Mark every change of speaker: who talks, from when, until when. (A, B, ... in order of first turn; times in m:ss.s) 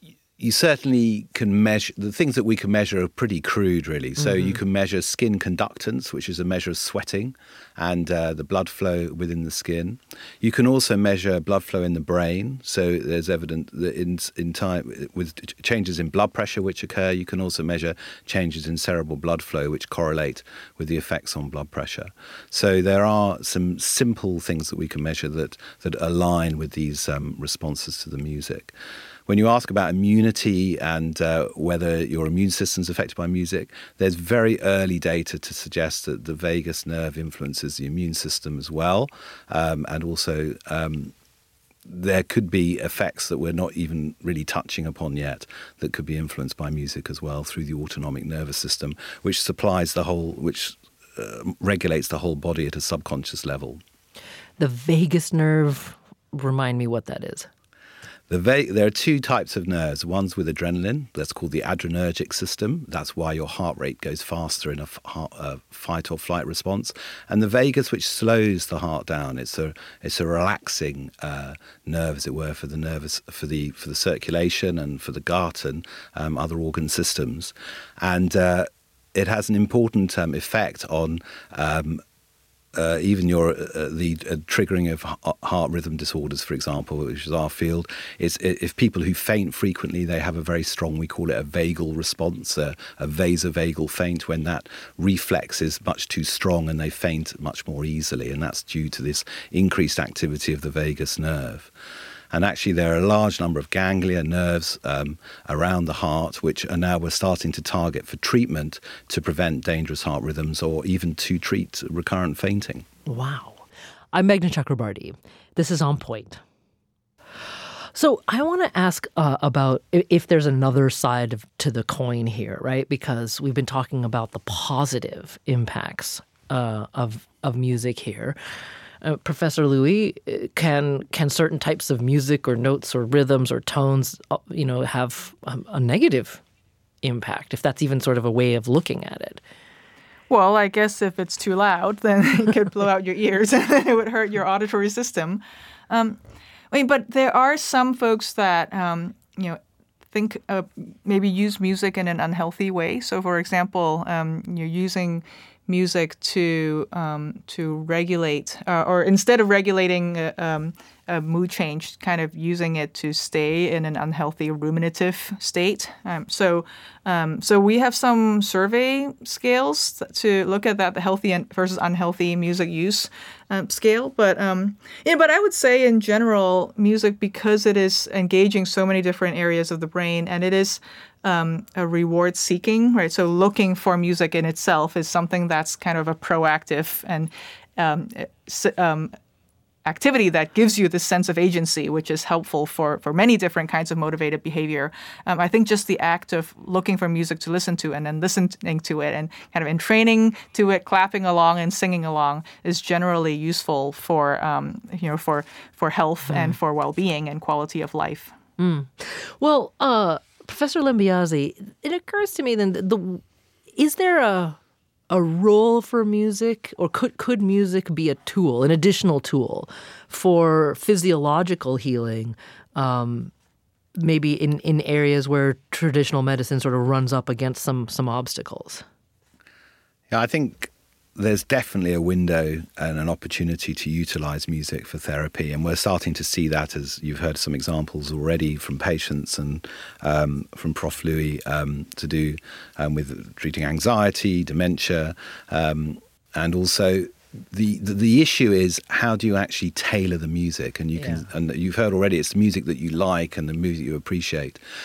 0:00.4-0:28.7 A
0:04.2-0:04.6 B
0:29.3-0:41.1 A
0:41.9-0:53.8 A
0:54.6-0:57.5 B
0:58.3-1:22.0 A
1:22.8-1:41.7 A
1:42.3-1:52.9 A
1:53.1-1:56.4 B
1:57.9-2:08.4 B
2:09.0-2:16.4 B
2:17.0-2:19.4 B
2:20.3-2:26.2 C
2:26.7-2:29.6 C
2:30.1-3:09.1 C
3:09.9-3:28.3 C
3:26.3-3:26.6 B
3:28.6-3:33.2 B
3:33.8-3:34.6 B
3:35.1-3:43.3 B
3:44.0-3:48.8 B
3:50.1-4:14.6 A
4:11.0-4:11.3 B